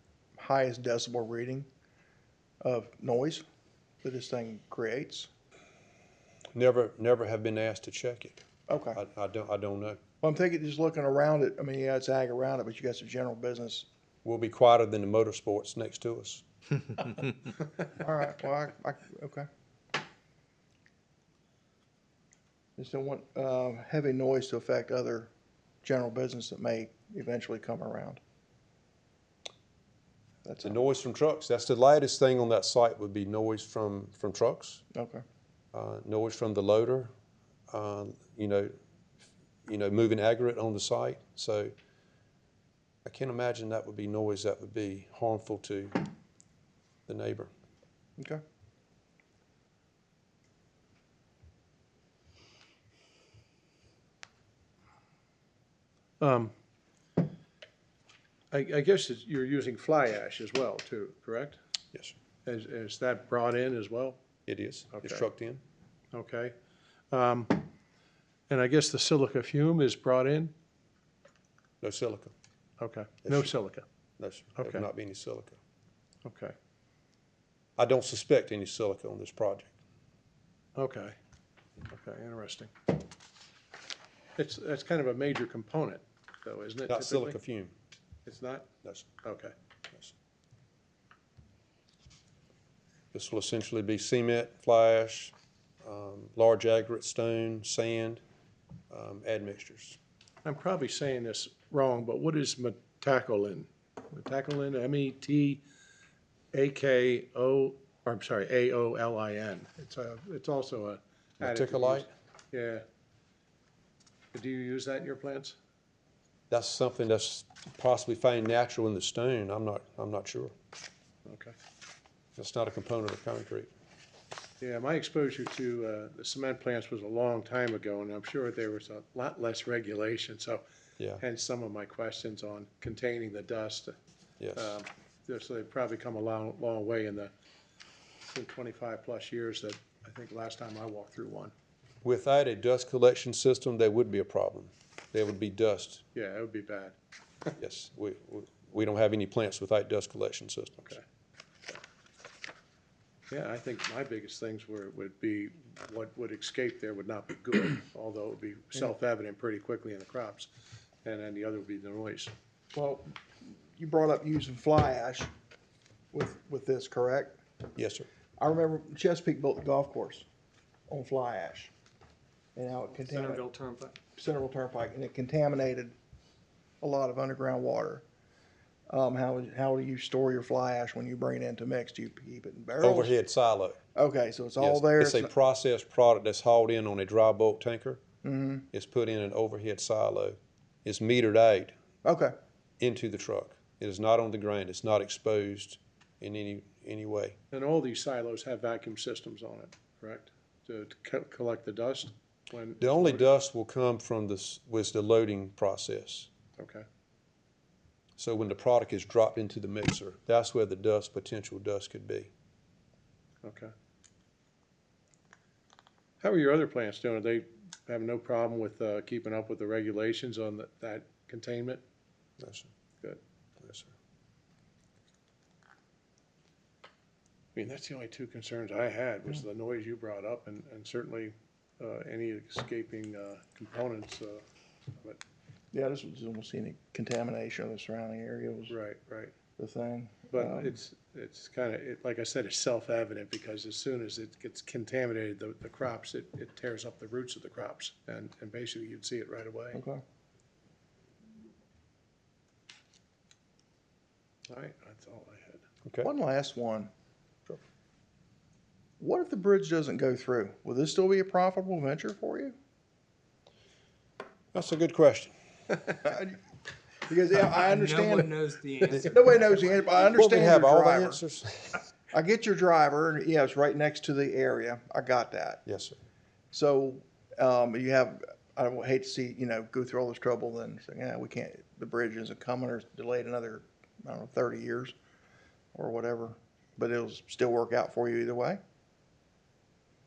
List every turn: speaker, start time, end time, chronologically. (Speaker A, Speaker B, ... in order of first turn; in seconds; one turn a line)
Speaker A: 0.4-1.7
Speaker A: 2.6-3.4
Speaker A: 4.0-5.3
Speaker B: 6.5-8.4
Speaker A: 8.7-9.0
Speaker B: 8.9-10.0
Speaker A: 10.2-13.9
Speaker B: 14.2-16.4
Speaker A: 17.9-19.5
Speaker A: 22.8-25.3
Speaker A: 25.8-28.2
Speaker A: 30.4-30.9
Speaker B: 30.6-34.8
Speaker A: 34.9-35.2
Speaker B: 35.7-37.1
Speaker B: 37.7-38.7
Speaker B: 39.7-41.7
Speaker B: 43.0-46.0
Speaker B: 47.1-47.5
Speaker C: 56.2-56.5
Speaker C: 58.5-61.6
Speaker C: 62.5-64.2
Speaker B: 64.5-65.6
Speaker C: 64.9-65.3
Speaker C: 66.1-66.5
Speaker C: 67.1-67.7
Speaker C: 68.5-70.5
Speaker B: 71.8-72.3
Speaker C: 72.8-73.8
Speaker B: 73.2-73.5
Speaker B: 74.2-75.6
Speaker C: 74.6-74.9
Speaker C: 76.2-76.5
Speaker B: 77.8-79.7
Speaker C: 80.8-81.2
Speaker C: 81.9-82.7
Speaker C: 84.4-87.3
Speaker B: 86.9-87.7
Speaker C: 88.3-88.7
Speaker B: 88.8-89.2
Speaker C: 89.2-89.5
Speaker B: 93.1-98.2
Speaker B: 98.9-100.0
Speaker C: 100.5-105.6
Speaker C: 106.5-112.8
Speaker B: 111.4-112.1
Speaker C: 114.3-115.6
Speaker B: 116.5-120.5
Speaker C: 121.3-121.6
Speaker B: 122.4-123.7
Speaker C: 124.6-130.6
Speaker C: 131.2-133.9
Speaker B: 134.4-134.7
Speaker C: 134.6-137.3
Speaker C: 138.2-141.5
Speaker B: 142.0-146.0
Speaker C: 146.1-147.0
Speaker B: 147.6-151.0
Speaker C: 153.3-160.5
Speaker C: 161.0-162.3
Speaker A: 162.7-165.3
Speaker A: 166.1-167.4
Speaker B: 167.8-168.1
Speaker A: 168.4-170.3
Speaker A: 170.9-171.7
Speaker A: 172.6-173.5
Speaker D: 173.1-173.9
Speaker A: 174.2-175.9
Speaker A: 176.8-178.1
Speaker A: 178.9-183.2
Speaker B: 182.8-183.8
Speaker A: 183.9-185.3
Speaker B: 184.6-188.0
Speaker A: 188.2-188.7
Speaker B: 188.7-191.7
Speaker A: 192.0-192.3
Speaker B: 192.8-197.4
Speaker C: 197.5-203.2
Speaker B: 202.8-206.3
Speaker C: 206.6-206.8
Speaker B: 208.2-212.3
Speaker C: 213.4-213.7
Speaker C: 216.2-221.8
Speaker B: 222.4-222.7
Speaker B: 223.6-223.9
Speaker C: 227.6-234.4
Speaker A: 235.7-238.8
Speaker C: 238.7-239.3
Speaker A: 239.6-240.8
Speaker C: 240.3-249.8
Speaker A: 249.7-250.0
Speaker C: 254.5-255.7
Speaker A: 256.0-256.9
Speaker A: 259.0-262.6
Speaker B: 264.5-265.3
Speaker A: 266.1-266.3
Speaker A: 267.1-268.4
Speaker D: 267.5-269.6
Speaker B: 268.9-269.1
Speaker A: 269.1-271.2
Speaker B: 269.9-271.8
Speaker A: 272.1-275.6
Speaker B: 275.7-276.0
Speaker A: 276.5-284.9
Speaker A: 285.8-288.6